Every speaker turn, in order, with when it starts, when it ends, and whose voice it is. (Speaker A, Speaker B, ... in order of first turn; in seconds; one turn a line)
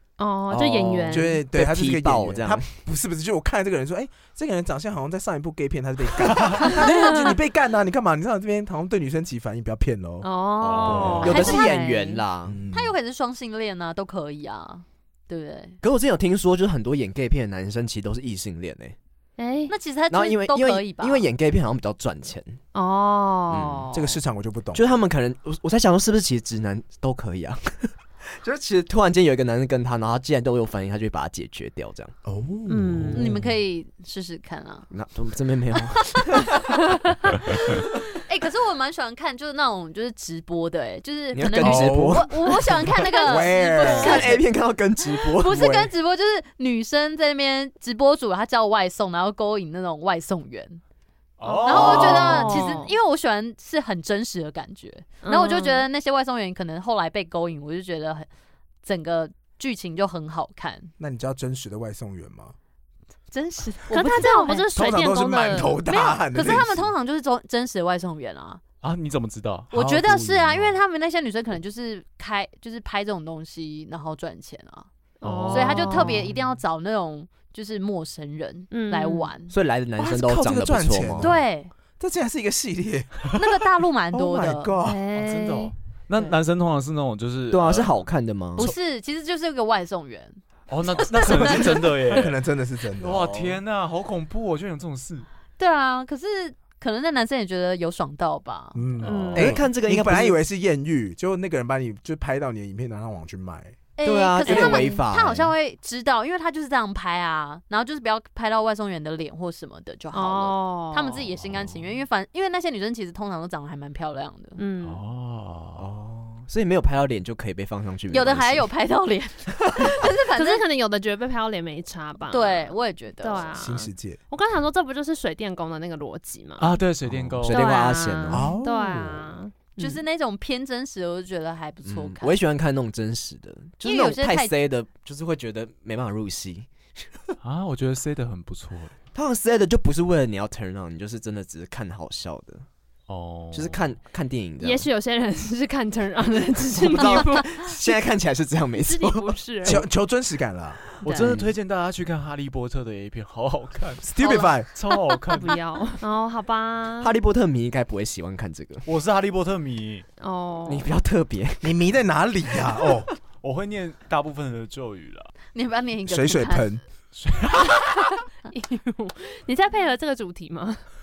Speaker A: 0.2-1.4
Speaker B: 0.5-2.6
Speaker C: 1.1-11.4
Speaker A: 6.8-7.3
Speaker A: 10.2-12.2
Speaker D: 10.6-11.5
Speaker B: 10.6-12.6
Speaker E: 11.2-12.0
Speaker C: 12.4-12.9
Speaker E: 12.7-15.8
Speaker B: 15.8-18.9
Speaker A: 19.4-19.7
Speaker E: 19.7-21.3
Speaker B: 20.1-22.6
Speaker A: 22.7-24.2
Speaker B: 23.5-23.9
Speaker C: 23.9-24.9
Speaker B: 24.7-32.1
Speaker C: 32.2-33.6
Speaker A: 32.7-33.3
Speaker E: 33.1-34.9
Speaker B: 34.9-36.8
Speaker E: 35.9-44.5
Speaker B: 41.3-45.9
Speaker C: 41.6-44.4
Speaker E: 45.0-50.8
Speaker D: 51.4-52.5
Speaker A: 51.5-52.9
Speaker B: 51.5-52.7
Speaker E: 51.6-58.3
Speaker A: 55.2-55.9
Speaker E: 58.8-60.9
Speaker C: 61.0-62.5
Speaker E: 63.3-64.7
Speaker A: 63.9-65.8
Speaker C: 64.8-66.9
Speaker E: 65.8-68.6
Speaker D: 68.8-69.7
Speaker E: 69.7-74.9
Speaker C: 69.7-70.8
Speaker A: 75.2-76.2
Speaker D: 75.2-76.4
Speaker E: 75.5-79.5
Speaker A: 78.7-79.3
Speaker B: 79.5-81.3
Speaker C: 80.0-81.4
Speaker E: 81.2-81.7
Speaker C: 82.0-83.4
Speaker E: 83.3-84.8
Speaker C: 84.1-85.0
Speaker A: 84.8-85.7
Speaker D: 85.1-88.0
Speaker B: 87.5-88.7
Speaker E: 88.6-91.9
Speaker D: 90.7-92.4
Speaker C: 91.2-93.4
Speaker D: 93.0-95.3
Speaker B: 93.2-93.6
Speaker E: 95.6-98.8
Speaker C: 98.8-103.8
Speaker D: 99.0-99.6
Speaker A: 99.0-99.5
Speaker B: 99.3-100.4
Speaker E: 104.0-114.6
Speaker B: 104.0-105.5
Speaker A: 104.5-105.0
Speaker A: 110.1-111.2
Speaker D: 111.4-111.8
Speaker A: 114.6-115.0
Speaker D: 114.8-115.9
Speaker B: 115.8-118.7
Speaker E: 118.1-120.6
Speaker A: 120.3-126.8
Speaker E: 122.3-123.6
Speaker C: 123.5-124.2
Speaker D: 126.6-127.8
Speaker B: 127.1-128.5
Speaker A: 127.5-130.0
Speaker C: 128.3-129.4
Speaker E: 129.8-132.4
Speaker B: 131.8-136.7
Speaker E: 133.8-134.6
Speaker D: 137.4-138.9
Speaker B: 139.1-142.7
Speaker D: 143.1-143.8
Speaker B: 143.5-144.9
Speaker A: 144.6-147.9
Speaker B: 146.8-149.8
Speaker A: 148.8-149.8
Speaker C: 149.6-150.8
Speaker B: 151.0-151.5
Speaker D: 151.0-154.1
Speaker A: 151.0-151.3
Speaker C: 154.0-154.7
Speaker D: 154.6-155.6
Speaker A: 155.3-157.2
Speaker B: 157.0-158.9
Speaker D: 158.9-160.1
Speaker A: 160.2-160.9
Speaker B: 160.7-161.8
Speaker C: 161.6-163.1
Speaker D: 163.4-165.3
Speaker E: 165.5-166.7
Speaker C: 166.1-166.8
Speaker D: 167.1-168.1
Speaker A: 167.6-170.8